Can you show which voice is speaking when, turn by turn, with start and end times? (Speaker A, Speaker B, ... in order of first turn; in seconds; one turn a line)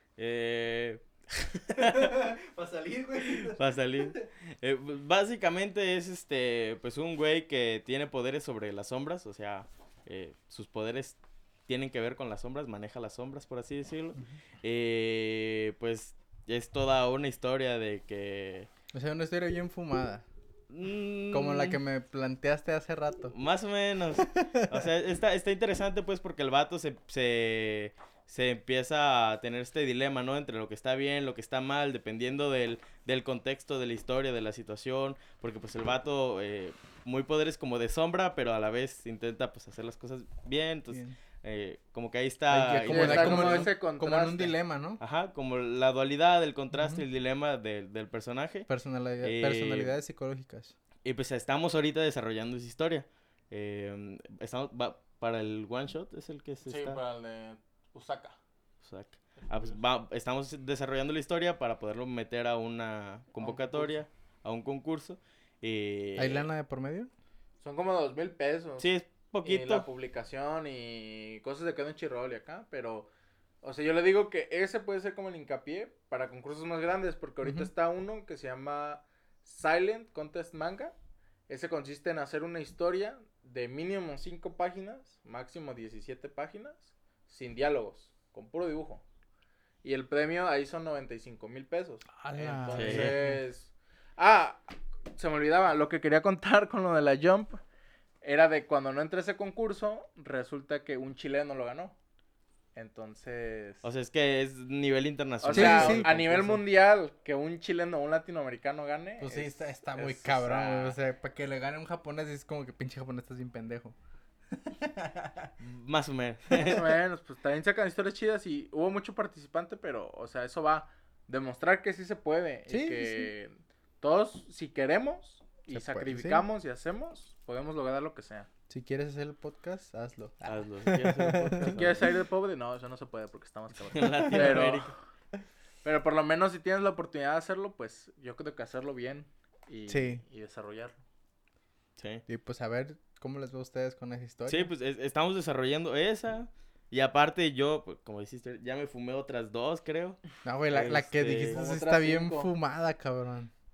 Speaker A: 0.2-2.3
Speaker B: 1.8-3.6
Speaker A: 3.2-18.7
Speaker B: 18.9-20.2
Speaker A: 20.7-21.8
Speaker B: 21.3-23.4
Speaker A: 23.3-43.7
Speaker B: 24.2-24.8
Speaker B: 40.9-41.2
Speaker B: 42.5-45.0
Speaker C: 42.9-44.5
Speaker A: 45.0-48.7
Speaker B: 46.7-47.0
Speaker B: 48.7-50.8
Speaker A: 49.2-49.9
Speaker A: 51.0-57.0
Speaker C: 56.7-58.4
Speaker A: 58.8-66.5
Speaker C: 63.4-64.0
Speaker B: 66.2-67.1
Speaker C: 67.6-68.9
Speaker A: 68.8-69.9
Speaker C: 69.5-73.1
Speaker C: 73.6-81.0
Speaker B: 77.4-77.7
Speaker C: 81.5-89.0
Speaker C: 89.8-97.6
Speaker B: 92.2-93.4
Speaker A: 92.7-93.2
Speaker C: 98.2-102.0
Speaker C: 102.8-103.8
Speaker A: 103.8-106.6
Speaker C: 105.4-111.0
Speaker B: 105.5-106.2
Speaker B: 109.2-114.0
Speaker B: 114.5-115.5
Speaker A: 115.6-116.9
Speaker C: 116.5-128.5
Speaker B: 122.7-123.3
Speaker B: 125.7-126.4
Speaker B: 128.7-131.8
Speaker A: 130.4-132.1
Speaker C: 131.7-134.9
Speaker A: 133.9-134.9
Speaker C: 135.8-141.0
Speaker B: 139.9-140.2
Speaker A: 142.0-142.2
Speaker B: 142.3-144.7
Speaker A: 144.5-151.6
Speaker B: 150.4-153.5
Speaker C: 151.5-152.5